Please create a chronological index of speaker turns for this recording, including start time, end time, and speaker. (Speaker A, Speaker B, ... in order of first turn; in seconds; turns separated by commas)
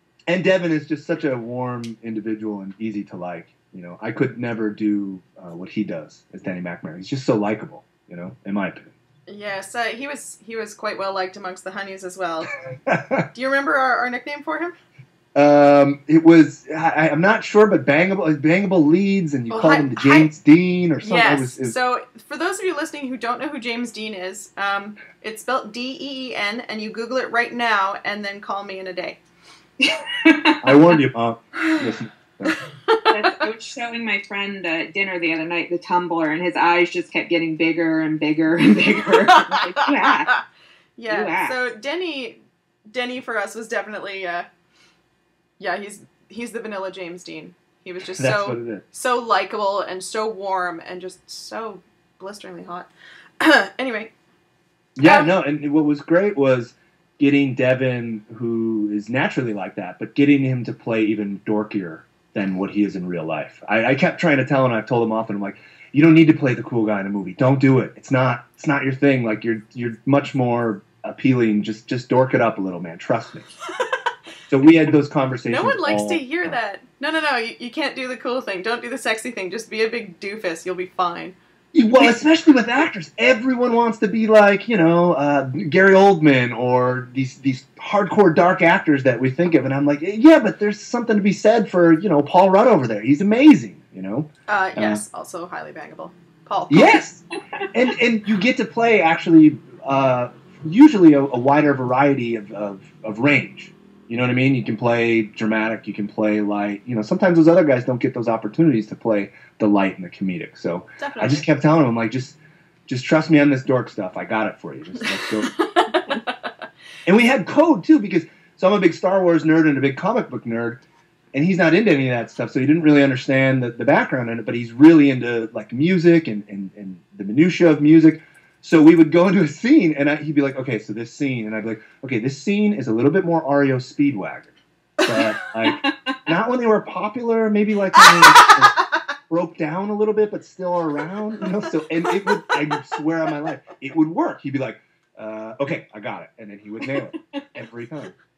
Speaker A: 0.3-8.9, Speaker B: 9.3-12.5, Speaker A: 12.9-13.2, Speaker B: 13.3-14.8, Speaker A: 15.3-21.8, Speaker B: 19.5-20.3, Speaker B: 21.0-29.2, Speaker C: 29.8-30.9, Speaker A: 30.6-32.6, Speaker B: 32.9-33.1, Speaker C: 33.1-40.4, Speaker B: 39.5-40.4, Speaker B: 41.0-42.4, Speaker C: 41.1-41.6, Speaker B: 42.9-44.5, Speaker B: 45.6-54.1, Speaker A: 48.1-48.8, Speaker A: 55.0-73.5, Speaker B: 55.0-55.3, Speaker A: 74.5-76.6, Speaker B: 75.5-81.4, Speaker A: 81.7-95.0, Speaker B: 94.5-97.0, Speaker A: 96.7-115.5, Speaker B: 111.0-111.5, Speaker B: 115.6-116.2, Speaker A: 117.1-120.8, Speaker A: 121.3-134.5, Speaker A: 135.0-148.1, Speaker B: 138.1-138.6